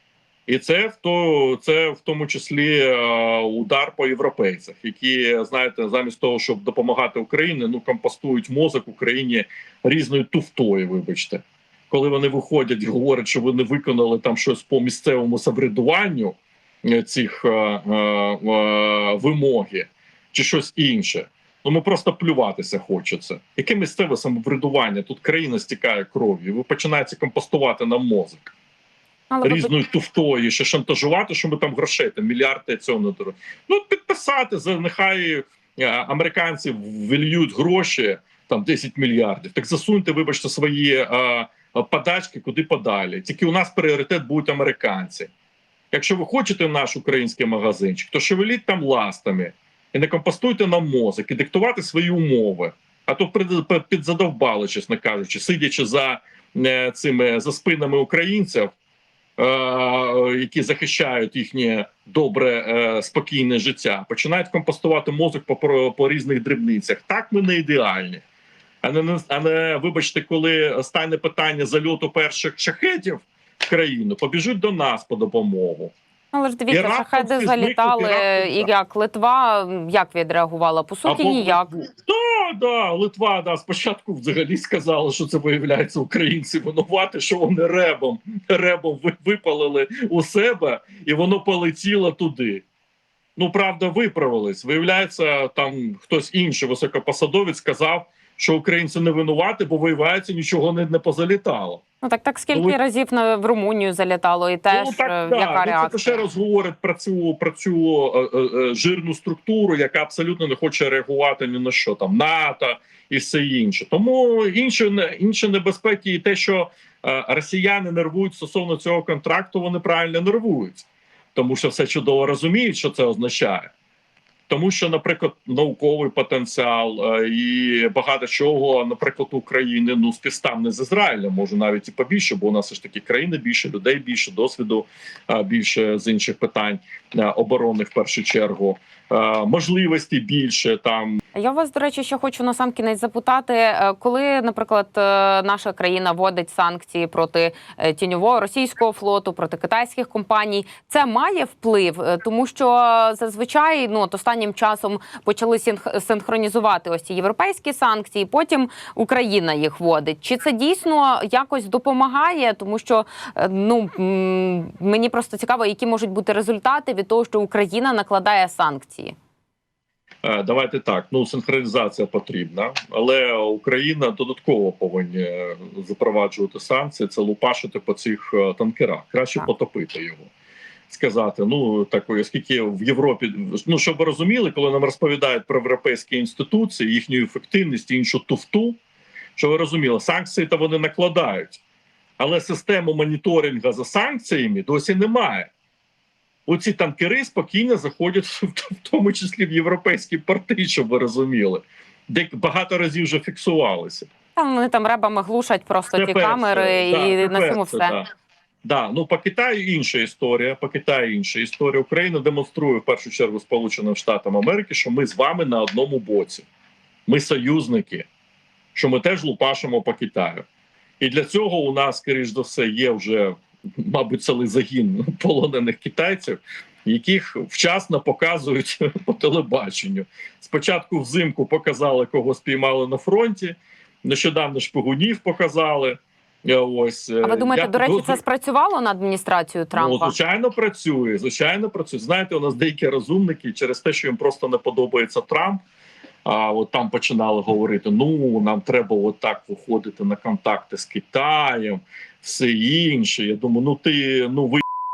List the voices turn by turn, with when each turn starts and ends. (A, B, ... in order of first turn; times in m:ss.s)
0:00.5-0:28.5 A
0:29.3-0:29.7 B
0:29.4-0:45.3 A
0:45.9-0:58.7 A
0:59.4-1:08.2 A
1:08.8-1:15.9 A
1:16.3-1:21.8 B
1:16.7-1:18.7 A
1:21.0-1:32.6 A
1:33.4-1:41.8 A
1:42.0-1:46.2 B
1:44.7-2:03.7 A
2:04.5-2:21.2 A
2:21.3-2:49.1 B
2:50.2-3:00.3 A
3:00.9-3:08.8 A
3:09.4-3:11.6 A
3:12.2-3:15.5 A
3:16.5-3:24.1 A
3:24.4-3:27.9 B
3:25.9-3:28.1 A
3:28.6-3:36.4 A
3:37.1-3:38.0 A
3:38.7-3:40.4 A
3:41.0-3:58.2 A
3:57.2-4:00.1 B
3:59.7-4:05.6 A
4:06.2-4:14.6 A